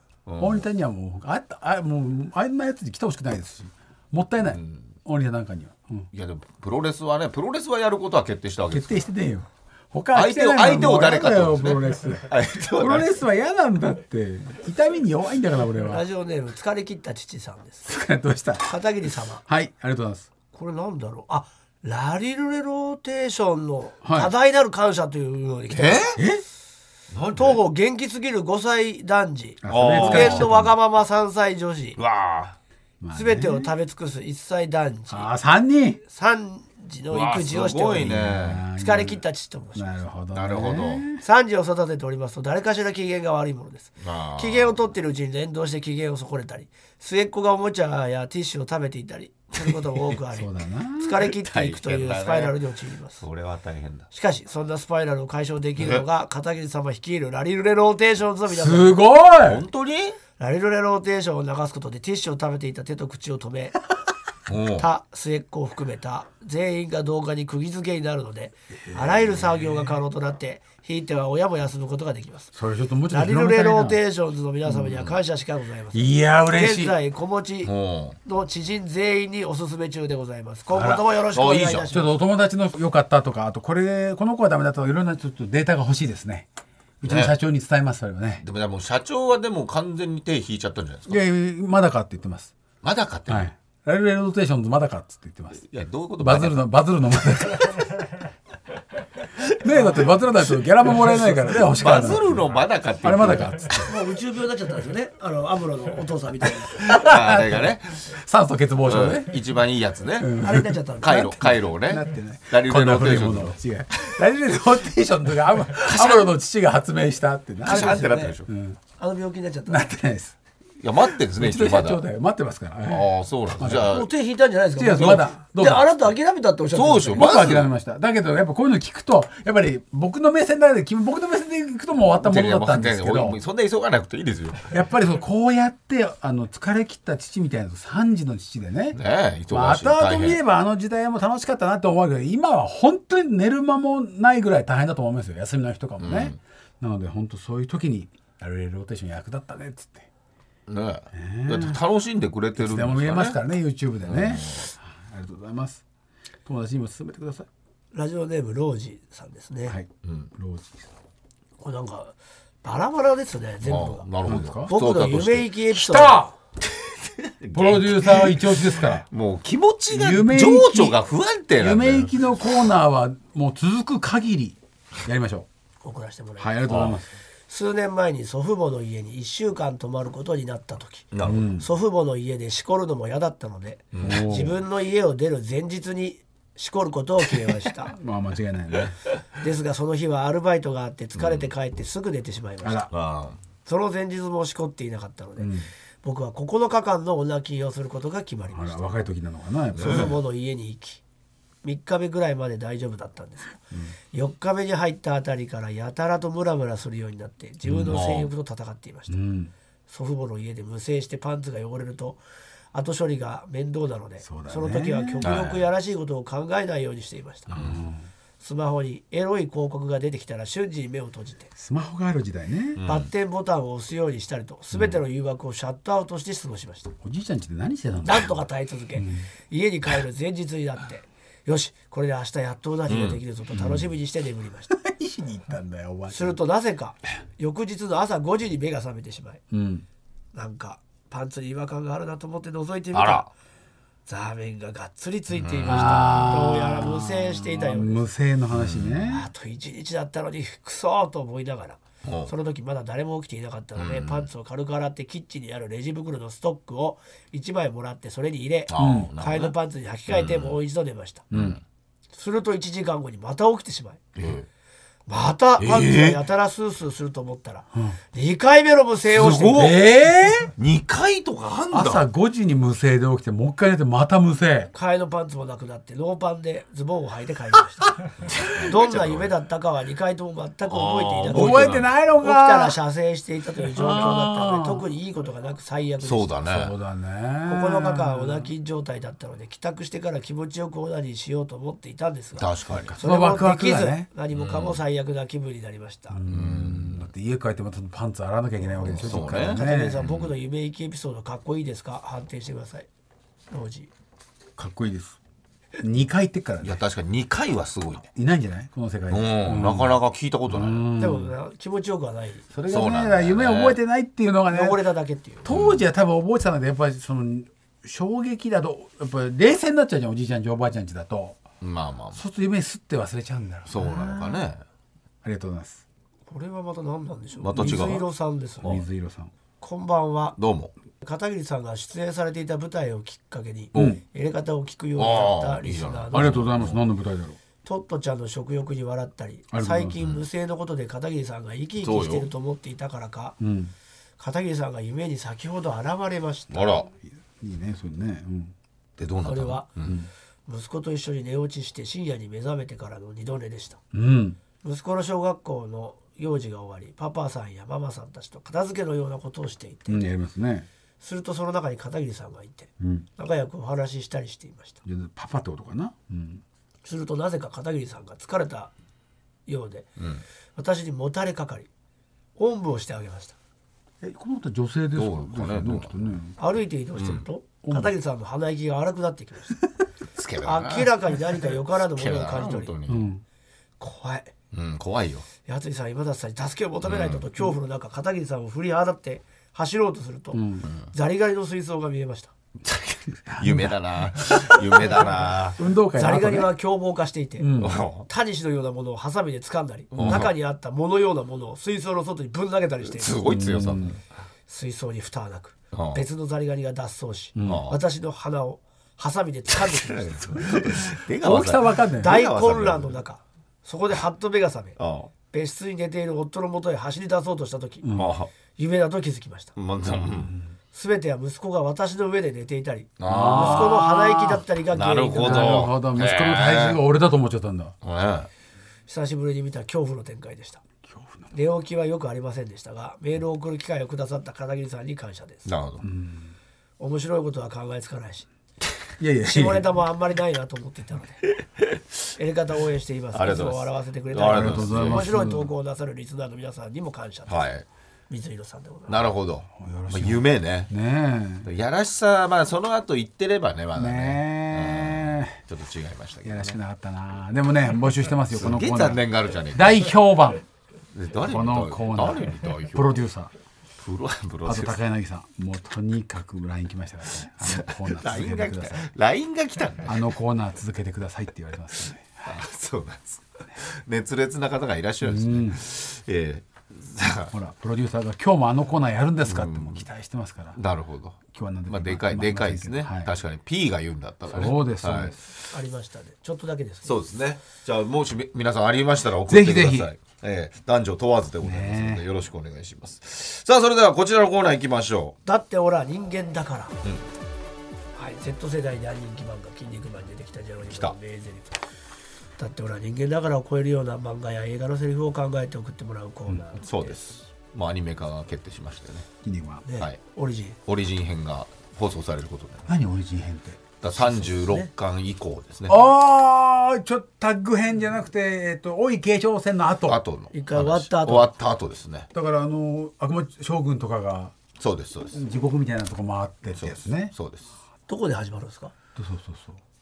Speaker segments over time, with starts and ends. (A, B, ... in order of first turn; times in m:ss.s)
0:00.2-0:00.6 A
0:00.4-0:06.1 B
0:04.5-0:04.9 A
0:06.1-0:09.0 A
0:08.7-0:16.0 B
0:10.1-0:13.1 A
0:15.8-0:17.9 C
0:17.8-0:18.7 B
0:18.6-0:19.4 C
0:19.4-0:20.3 B
0:20.5-0:26.1 C
0:24.0-0:24.3 B
0:25.7-0:26.2 A
0:26.2-0:26.4 B
0:27.1-0:27.6 A
0:27.4-0:32.0 C
0:29.6-0:30.7 B
0:29.7-0:30.6 A
0:32.0-0:32.6 A
0:33.0-0:33.7 B
0:33.1-0:35.3 C
0:35.1-0:36.0 B
0:36.0-0:38.2 C
0:37.1-0:38.6 A
0:38.0-0:39.2 B
0:38.7-0:40.0 C
0:39.7-0:41.2 B
0:40.3-0:41.0 A
0:41.2-0:53.2 C
0:44.0-0:44.8 A
0:50.3-0:51.2 B
0:51.2-0:52.6 A
0:53.2-0:54.1 A
0:54.1-0:59.0 C
0:58.5-0:59.6 B
0:59.4-1:00.2 A
1:00.4-1:03.8 C
1:04.5-1:04.9 A
1:04.8-1:12.5 C
1:08.8-1:10.0 B
1:12.5-1:14.0 B
1:13.1-1:22.2 C
1:14.6-1:14.9 B
1:14.9-1:15.2 A
1:15.9-1:17.0 B
1:17.6-1:18.2 A
1:20.7-1:26.4 B
1:21.3-1:21.8 A
1:27.0-1:28.4 B
1:27.0-1:27.3 A
1:28.4-1:31.2 A
1:31.1-1:32.5 B
1:32.8-1:33.5 A
1:33.3-1:35.6 B
1:35.6-1:36.6 A
1:36.2-1:37.8 B
1:39.6-1:43.8 B
1:39.8-1:40.2 A
1:40.9-1:43.9 A
1:43.8-1:46.9 C
1:46.8-1:49.4 B
1:47.0-1:48.0 A
1:48.8-1:50.3 A
1:50.1-1:58.8 B
1:50.4-1:51.3 C
1:51.0-1:54.1 A
1:55.8-1:56.3 A
1:57.6-1:58.4 C
1:57.6-1:58.5 A
1:59.0-1:59.9 C
1:59.7-2:00.4 B
2:00.8-2:02.0 A
2:01.3-2:03.9 B
2:02.9-2:04.1 A
2:03.8-2:07.3 C
2:04.8-2:05.9 B
2:04.9-2:05.2 A
2:06.7-2:07.7 A
2:07.1-2:13.4 B
2:12.2-2:14.8 A
2:14.7-2:30.1 B
2:18.9-2:20.4 A
2:26.0-2:26.4 A
2:30.7-2:33.4 A
2:31.1-2:31.8 B
2:32.6-2:35.8 B
2:34.0-2:34.7 A
2:36.4-2:37.5 B
2:37.9-2:39.8 C
2:39.7-2:40.8 B
2:40.0-2:40.3 A
2:41.6-2:44.1 C
2:43.6-2:45.5 A
2:44.2-2:44.7 B
2:44.6-2:46.3 C
2:45.7-2:46.3 B
2:47.4-2:52.1 A
2:47.5-2:49.0 B
2:49.9-2:51.0 B
2:51.6-2:55.5 B
2:55.8-2:56.8 C
2:56.4-2:57.2 B
2:56.7-2:57.0 A
2:57.5-3:07.9 C
3:01.1-3:01.4 A
3:01.2-3:01.7 B
3:03.9-3:04.2 A
3:04.0-3:04.6 B
3:07.9-3:09.0 B
3:09.4-3:12.9 C
3:11.2-3:11.5 A
3:12.6-3:12.9 B
3:12.9-3:13.4 A
3:13.6-3:18.9 C
3:15.4-3:15.7 B
3:18.5-3:20.2 B
3:19.7-3:20.2 A
3:19.8-3:21.0 C
3:21.6-3:29.2 C
3:27.6-3:28.0 B
3:27.9-3:28.3 A
3:29.1-3:29.5 B
3:29.9-3:32.2 C
3:32.7-3:37.5 C
3:34.2-3:35.4 B
3:35.2-3:35.7 A
3:37.5-3:38.0 B
3:37.5-3:37.8 A
3:38.4-3:41.5 C
3:41.6-3:42.8 B
3:42.8-3:43.1 A
3:42.8-3:46.9 C
3:47.0-3:48.3 B
3:48.0-3:54.7 C
3:48.9-3:49.3 B
3:52.9-3:53.2 A
3:53.5-3:53.9 B
3:54.7-3:56.4 B
3:56.1-3:59.4 C
3:59.5-3:59.8 B
4:00.3-4:03.3 C
4:02.9-4:03.3 A
4:04.0-4:08.0 C
4:05.3-4:06.3 A
4:05.6-4:09.3 B
4:08.5-4:09.0 A
4:09.1-4:21.2 C
4:12.0-4:12.3 A
4:13.8-4:14.3 A
4:18.7-4:19.5 A
4:18.8-4:19.1 B
4:20.1-4:20.6 A
4:21.3-4:21.6 B
4:21.3-4:21.6 A
4:22.1-4:24.0 C
4:24.2-4:24.4 A
4:25.1-4:29.8 C
4:25.6-4:26.2 A
4:27.7-4:28.0 B
4:29.1-4:29.8 A
4:29.5-4:30.5 B
4:30.6-4:32.0 A
4:31.7-4:34.7 B
4:34.7-4:38.0 C
4:38.3-4:39.3 A
4:38.7-4:46.3 C
4:40.7-4:41.9 A
4:41.3-4:42.8 B
4:43.7-4:44.8 B
4:46.0-4:46.7 A
4:46.4-4:48.5 B
4:47.5-4:56.2 C
4:52.3-4:52.9 A
4:52.7-4:54.1 B
4:54.3-4:54.8 A
4:56.1-5:00.0 B
4:56.3-4:57.1 A
4:58.8-5:00.3 A
4:59.1-5:02.9 C
5:03.5-5:03.9 C
5:04.6-5:05.2 B
5:05.8-5:06.8 B
5:06.6-5:08.1 A
5:08.1-5:11.4 B
5:09.1-5:10.9 A
5:11.0-5:12.5 C
5:12.5-5:14.8 B
5:12.7-5:13.8 A
5:14.5-5:15.5 C
5:15.4-5:21.4 B
5:15.5-5:15.9 A
5:21.6-5:22.2 A
5:22.1-5:24.5 B
5:23.6-5:24.6 A
5:25.2-5:25.8 B
5:26.3-5:28.8 C
5:27.4-5:28.0 A
5:27.6-5:28.0 B
5:28.6-5:29.3 B
5:29.6-5:30.4 C
5:30.4-5:30.7 A
5:31.0-5:36.5 C
5:33.7-5:34.0 A
5:33.7-5:34.0 B
5:35.0-5:36.8 A
5:36.1-5:37.4 B
5:37.6-5:43.4 C
5:39.5-5:40.0 B
5:41.8-5:42.3 A
5:43.4-5:43.7 B
5:44.2-5:46.8 C
5:46.5-5:46.9 A
5:46.9-5:48.5 B
5:49.0-5:49.9 A
5:49.2-5:49.7 C
5:49.8-5:50.1 B
5:50.4-5:53.8 C
5:53.9-5:54.4 B
5:54.6-6:00.1 C
5:59.9-6:00.7 B
6:01.0-6:04.8 C
6:02.8-6:03.1 B
6:04.8-6:06.4 B
6:06.8-6:08.7 C
6:09.4-6:09.9 C
6:10.0-6:10.2 A
6:10.5-6:11.7 C
6:12.4-6:13.4 C
6:14.0-6:16.4 B
6:14.9-6:16.0 A
6:16.4-6:19.6 C
6:17.0-6:17.2 A
6:17.6-6:17.9 B
6:20.2-6:21.0 A
6:20.4-6:22.7 C
6:21.6-6:23.1 A
6:22.8-6:23.2 B
6:23.8-6:24.3 C
6:24.5-6:25.3 A
6:25.4-6:32.3 C
6:26.8-6:27.2 A
6:30.3-6:30.6 B
6:30.6-6:30.9 A
6:32.6-6:35.6 A
6:33.3-6:36.5 B
6:35.9-6:37.5 C
6:37.4-6:37.8 B
6:37.6-6:38.1 A
6:38.0-6:43.2 C
6:39.9-6:40.3 A
6:40.0-6:40.3 B
6:42.8-6:44.0 A
6:43.2-6:44.0 B
6:44.5-6:50.6 C
6:45.7-6:46.0 A
6:47.4-6:47.6 B
6:47.4-6:47.8 A
6:49.5-6:53.0 A
6:50.6-6:52.2 B
6:52.0-6:54.8 C
6:54.8-6:55.1 A
6:55.3-6:57.9 C
6:57.8-6:58.1 B
6:57.9-6:58.3 A
6:58.5-6:59.5 C
6:59.6-7:00.4 A
6:59.8-7:00.5 B
7:00.7-7:05.6 C
7:03.0-7:03.8 A
7:03.0-7:04.4 B
7:04.7-7:06.8 A
7:05.2-7:07.7 B
7:07.8-7:08.3 A
7:08.9-7:10.6 C
7:10.8-7:11.3 B
7:11.3-7:15.5 C
7:15.4-7:15.8 A
7:15.8-7:16.3 B
7:16.8-7:18.3 C
7:19.0-7:19.8 B
7:19.2-7:21.2 C
7:22.2-7:27.4 C
7:23.1-7:25.1 A
7:24.3-7:25.5 B
7:27.3-7:27.6 A
7:28.1-7:29.1 C
7:28.9-7:30.7 A
7:29.6-7:31.5 B
7:31.4-7:36.6 A
7:33.7-7:35.4 B
7:36.2-7:40.4 B
7:38.3-7:39.9 A
7:40.9-7:42.9 A
7:41.2-7:43.3 B
7:43.8-7:44.8 A
7:44.4-7:48.9 B
7:47.4-7:50.1 A
7:49.8-7:52.4 B
7:52.2-7:57.3 A
7:55.0-7:55.6 B
7:57.3-8:00.6 B
7:59.2-7:59.9 A
8:00.5-8:05.3 A
8:01.3-8:03.1 B
8:04.3-8:05.2 B
8:05.5-8:07.0 C
8:06.8-8:15.1 A
8:09.2-8:09.9 B
8:11.4-8:12.0 B
8:15.2-8:16.8 C
8:18.0-8:21.6 C
8:20.6-8:20.9 A
8:22.4-8:27.0 C
8:26.6-8:29.1 A
8:29.2-8:29.6 B
8:29.6-8:30.6 C
8:30.6-8:32.7 A
8:32.7-8:33.8 B
8:33.8-8:35.8 A
8:34.0-8:34.7 C
8:35.7-8:40.0 B
8:39.8-8:42.1 A
8:40.3-8:41.3 C
8:42.1-8:44.3 B
8:44.6-8:45.2 A
8:45.1-8:47.1 B
8:46.5-8:47.5 A
8:47.9-8:48.7 C
8:49.0-8:49.6 B